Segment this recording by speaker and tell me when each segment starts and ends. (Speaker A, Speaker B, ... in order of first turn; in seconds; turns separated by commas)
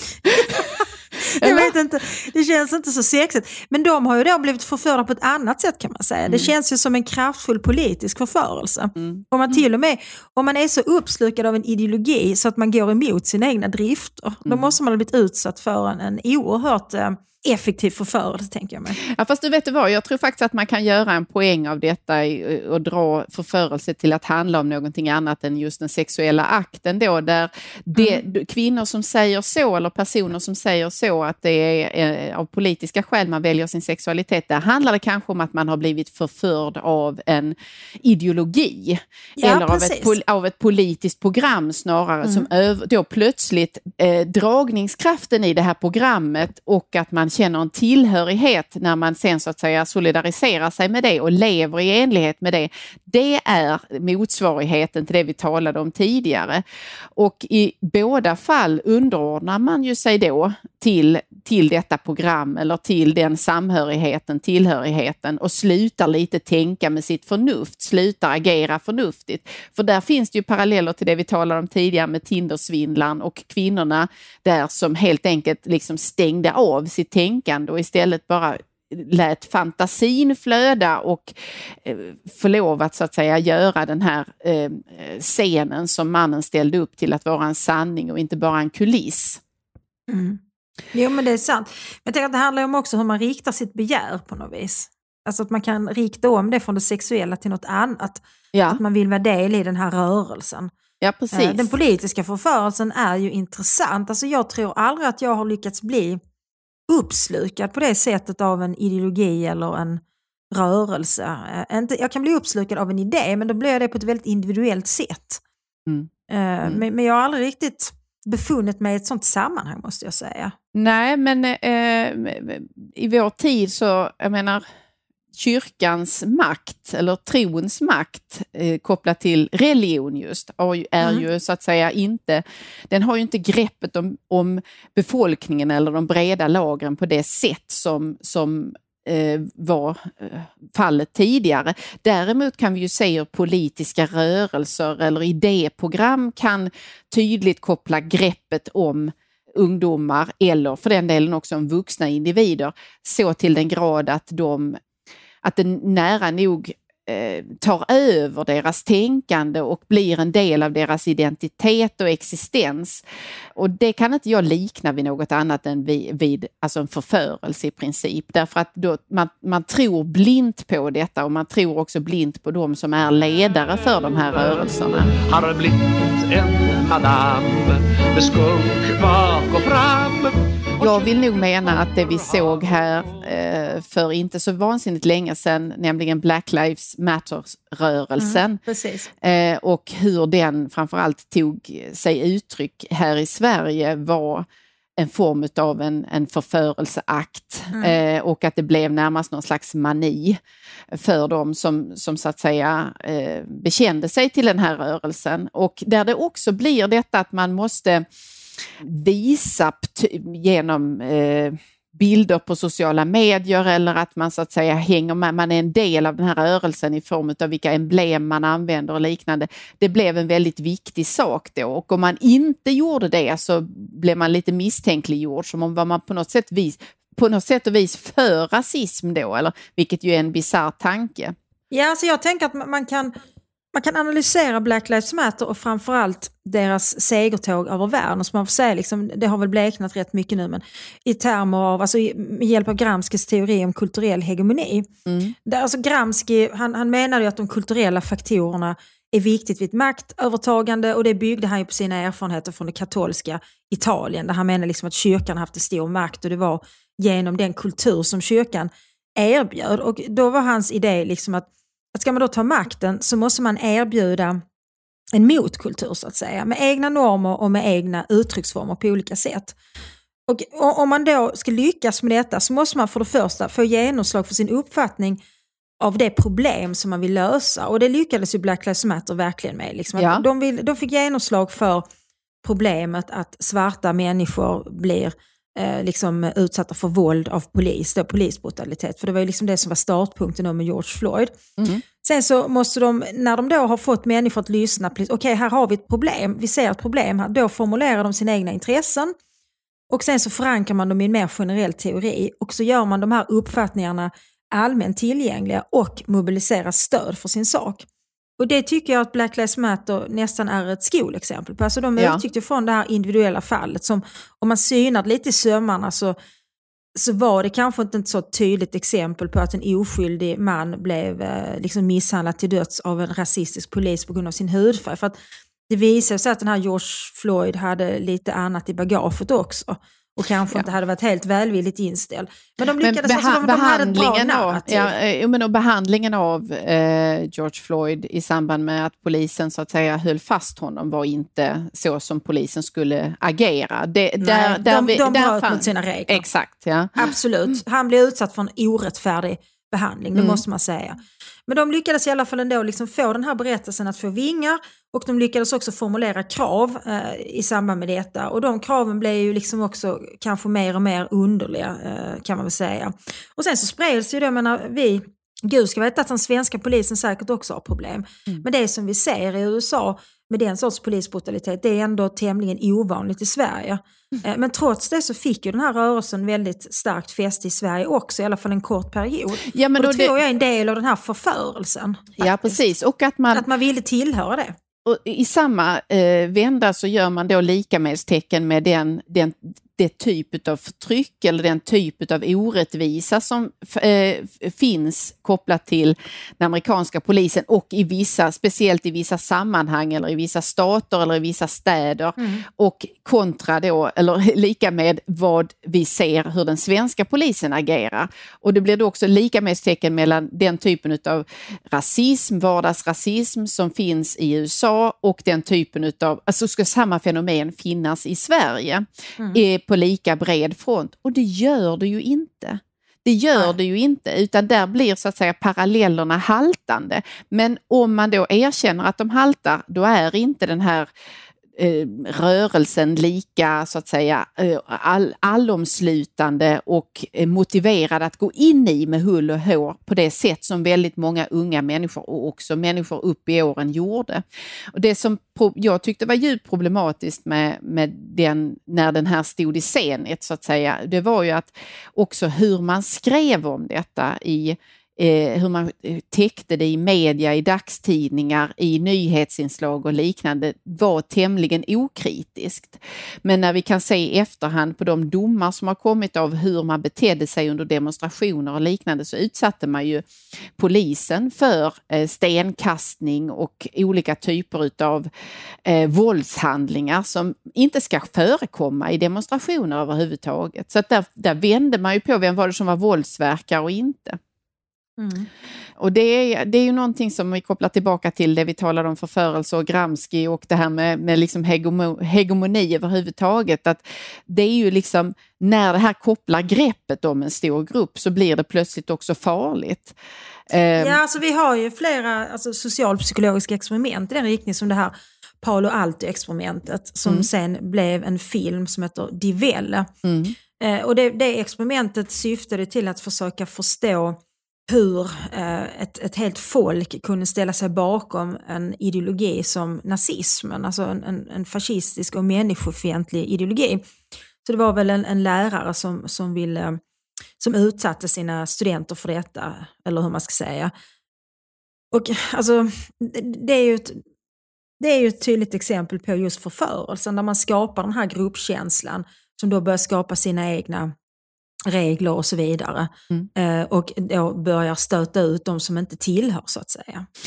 Speaker A: 0.3-0.6, Speaker B: 0.3-19.0, Speaker A: 1.3-1.7, Speaker A: 6.3-6.5, Speaker A: 14.4-14.7, Speaker A: 19.0-56.6, Speaker B: 39.4-40.1, Speaker A: 57.2-89.4, Speaker B: 90.1-90.4, Speaker B: 90.9-100.7, Speaker A: 98.5-98.8, Speaker A: 101.0-101.7, Speaker B: 101.3-106.2, Speaker B: 106.9-115.4, Speaker B: 116.3-120.5, Speaker A: 120.7-124.6, Speaker A: 125.3-154.8, Speaker A: 155.4-163.0, Speaker A: 163.6-175.1, Speaker C: 174.3-182.9, Speaker A: 180.8-188.6, Speaker B: 188.2-189.1, Speaker A: 189.2-194.5, Speaker A: 195.0-200.4, Speaker A: 200.9-208.1, Speaker A: 208.6-231.3, Speaker B: 231.7-233.2, Speaker B: 233.8-244.9, Speaker A: 245.1-245.3, Speaker B: 245.5-264.4, Speaker B: 265.1-269.6, Speaker B: 270.3-275.2, Speaker B: 275.8-281.9, Speaker A: 279.9-280.2, Speaker B: 282.4-291.4, Speaker A: 291.6-291.8, Speaker B: 292.0-299.1, Speaker B: 299.9-307.8, Speaker B: 308.4-316.2, Speaker B: 317.0-325.2, Speaker B: 325.7-334.9, Speaker A: 332.8-347.6, Speaker B: 344.2-346.2, Speaker B: 347.0-382.6, Speaker A: 350.1-350.4, Speaker A: 379.4-380.2, Speaker A: 382.2-383.5, Speaker B: 383.3-384.6, Speaker A: 384.9-430.9, Speaker B: 402.2-402.5, Speaker A: 431.6-470.1, Speaker A: 470.6-475.1, Speaker A: 475.6-484.2, Speaker B: 485.0-485.3, Speaker A: 485.8-499.9, Speaker A: 500.5-501.0, Speaker B: 500.8-509.9, Speaker A: 510.0-510.4, Speaker B: 510.6-523.8, Speaker B: 524.4-526.8, Speaker B: 527.4-530.7, Speaker B: 531.9-534.0, Speaker B: 534.8-540.9, Speaker B: 541.7-547.1